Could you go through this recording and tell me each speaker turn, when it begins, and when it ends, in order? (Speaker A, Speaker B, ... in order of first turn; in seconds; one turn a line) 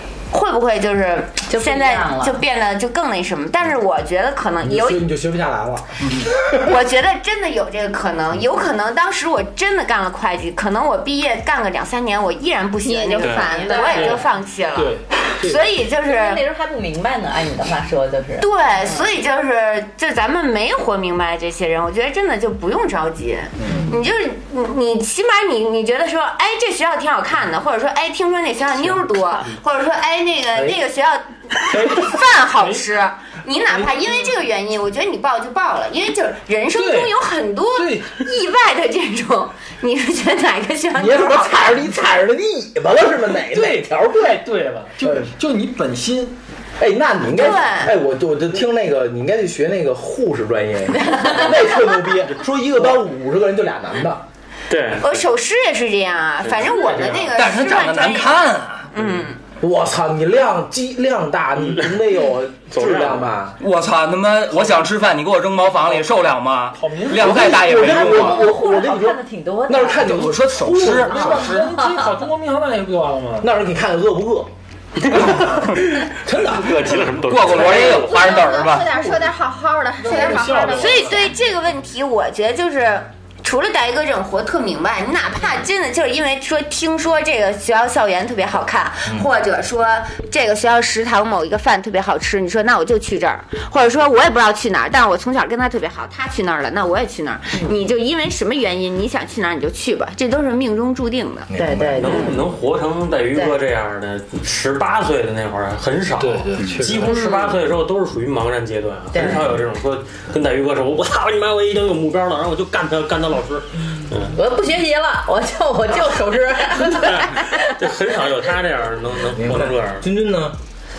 Speaker A: 0.3-5.1
Speaker B: 1.5-2.4
Speaker C: 4.6-6.5
Speaker A: 6.5-16.4
Speaker D: 12.8-14.1
Speaker E: 13.2-13.5
Speaker B: 13.4-14.2
Speaker F: 14.8-15.7
Speaker B: 16.0-19.1
Speaker A: 18.4-42.0
Speaker F: 32.6-32.9
Speaker F: 33.7-34.2
Speaker F: 36.7-37.1
Speaker F: 37.8-38.3
Speaker C: 41.0-44.4
Speaker F: 43.5-46.4
Speaker C: 45.0-45.3
Speaker C: 46.8-54.2
Speaker A: 47.3-48.0
Speaker E: 54.7-55.2
Speaker A: 55.0-58.4
Speaker E: 56.4-57.3
Speaker G: 57.3-59.2
Speaker A: 58.9-59.4
Speaker C: 59.6-63.6
Speaker E: 62.7-63.3
Speaker G: 63.6-68.5
Speaker F: 65.8-66.1
Speaker F: 66.7-67.9
Speaker C: 67.1-71.5
Speaker B: 67.8-70.1
Speaker G: 70.0-71.7
Speaker F: 70.7-73.5
Speaker B: 71.5-72.0
Speaker C: 73.4-74.5
Speaker C: 75.1-77.2
Speaker E: 75.1-75.4
Speaker E: 76.0-78.3
Speaker G: 77.3-78.9
Speaker D: 77.6-81.3
Speaker F: 78.9-79.3
Speaker F: 80.0-81.3
Speaker A: 80.6-101.5
Speaker C: 101.5-102.3
Speaker B: 101.5-102.4
Speaker E: 102.0-114.4
Speaker F: 106.2-107.2
Speaker A: 107.1-107.5
Speaker B: 109.1-109.4
Speaker B: 114.3-117.7
Speaker E: 116.8-120.0
Speaker C: 119.3-120.6